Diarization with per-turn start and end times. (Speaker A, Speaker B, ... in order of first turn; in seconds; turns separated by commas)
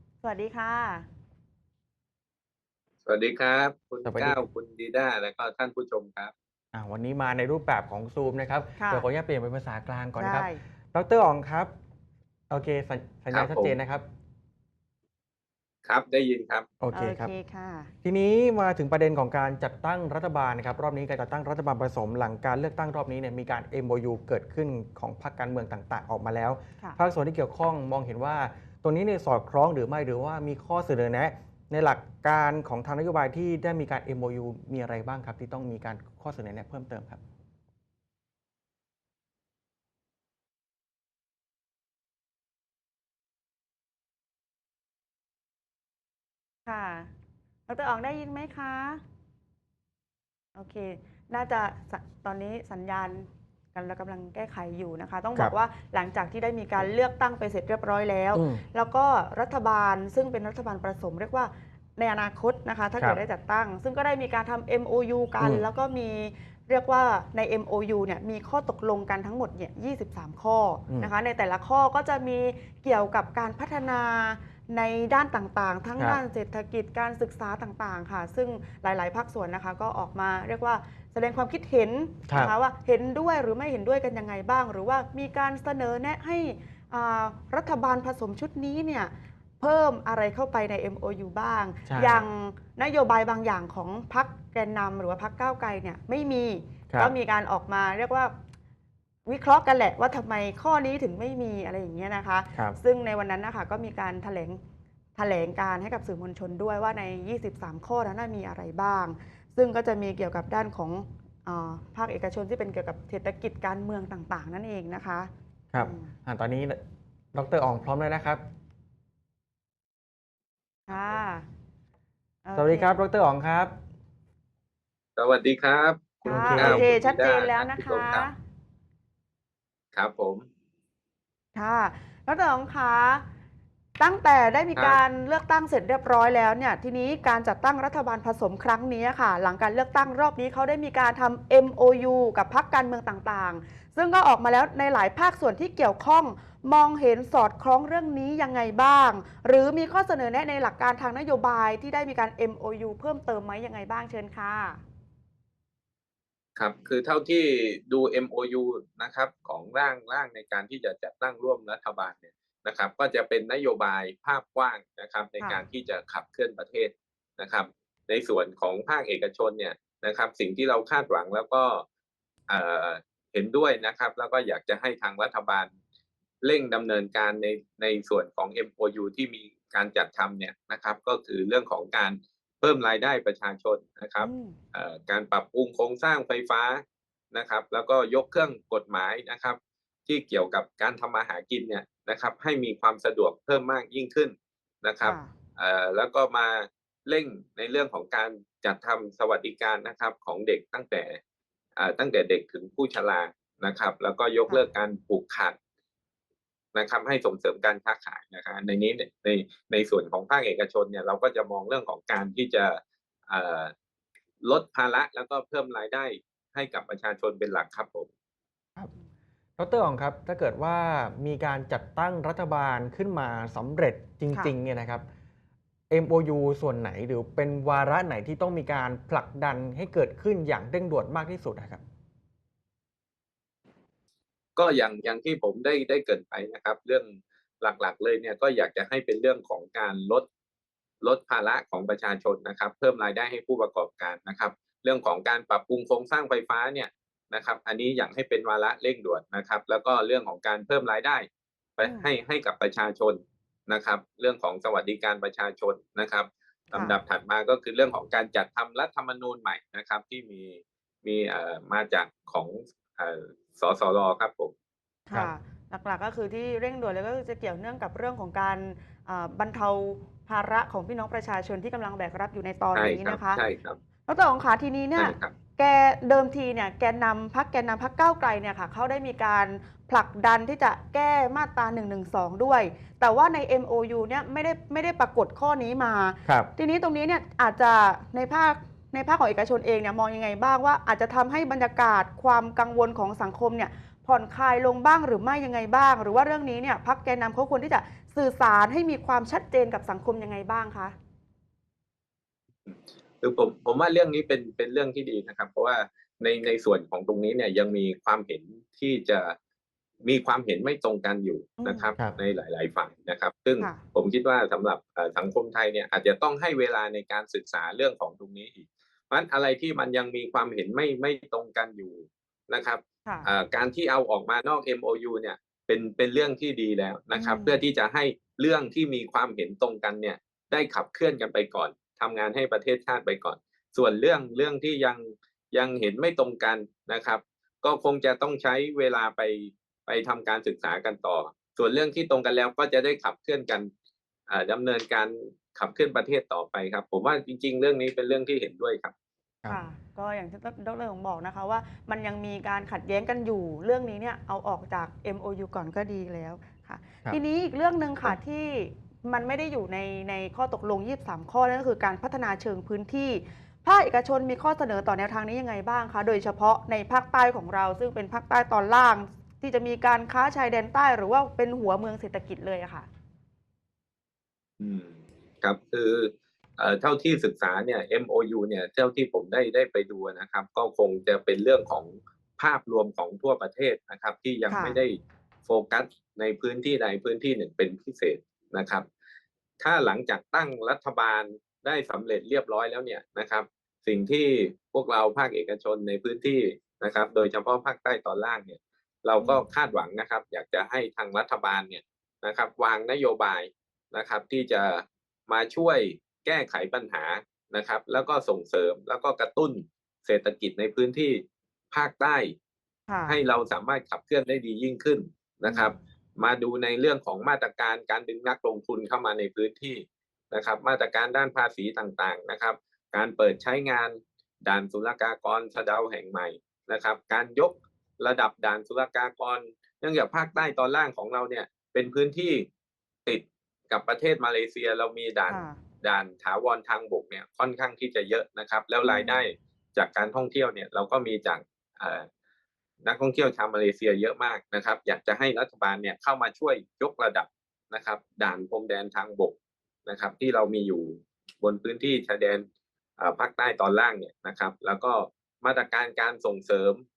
Speaker A: 0.2-1.1, Speaker B: 3.0-6.3, Speaker C: 4.0-4.4, Speaker C: 6.7-11.7, Speaker A: 8.8-9.1, Speaker A: 10.2-10.6, Speaker C: 12.5-14.0, Speaker B: 13.3-13.8, Speaker B: 15.8-16.7, Speaker C: 16.8-17.3, Speaker A: 16.9-17.9, Speaker C: 18.0-37.2, Speaker A: 46.7-47.1, Speaker A: 47.7-49.0, Speaker A: 50.6-98.3, Speaker C: 58.3-58.6, Speaker C: 65.4-65.7, Speaker C: 82.3-82.5, Speaker C: 91.9-92.2, Speaker A: 99.3-104.6, Speaker A: 105.2-116.1, Speaker C: 115.7-116.8, Speaker C: 117.3-118.4, Speaker A: 120.9-121.5, Speaker A: 122.5-123.0, Speaker C: 122.6-123.7, Speaker B: 125.2-128.3, Speaker C: 126.2-126.9, Speaker A: 126.2-128.3, Speaker B: 129.9-130.5, Speaker A: 131.6-133.2, Speaker A: 134.0-154.8, Speaker B: 134.8-135.0, Speaker B: 156.6-171.8, Speaker A: 165.4-165.7, Speaker B: 172.5-175.7, Speaker B: 176.4-201.2, Speaker A: 184.2-184.6, Speaker A: 195.0-195.3, Speaker B: 201.8-205.6, Speaker B: 206.7-213.7, Speaker B: 214.4-218.1, Speaker C: 219.6-225.0, Speaker C: 225.9-231.8, Speaker B: 234.6-240.3, Speaker B: 241.0-251.3, Speaker B: 251.8-264.5, Speaker A: 251.8-252.1, Speaker A: 265.1-273.4, Speaker B: 272.7-273.8, Speaker A: 274.1-300.9, Speaker B: 275.0-275.4, Speaker B: 302.7-309.4, Speaker B: 310.0-343.7, Speaker A: 311.6-311.9, Speaker A: 327.1-327.6, Speaker B: 344.3-348.9, Speaker A: 349.5-372.9, Speaker B: 374.6-388.9, Speaker A: 384.5-384.8, Speaker B: 389.6-412.4, Speaker A: 399.2-399.4, Speaker A: 412.9-413.2, Speaker B: 413.1-432.5, Speaker A: 415.5-415.7, Speaker B: 433.1-442.1, Speaker A: 435.3-435.6, Speaker A: 438.8-439.2, Speaker B: 442.8-452.5, Speaker B: 453.0-456.8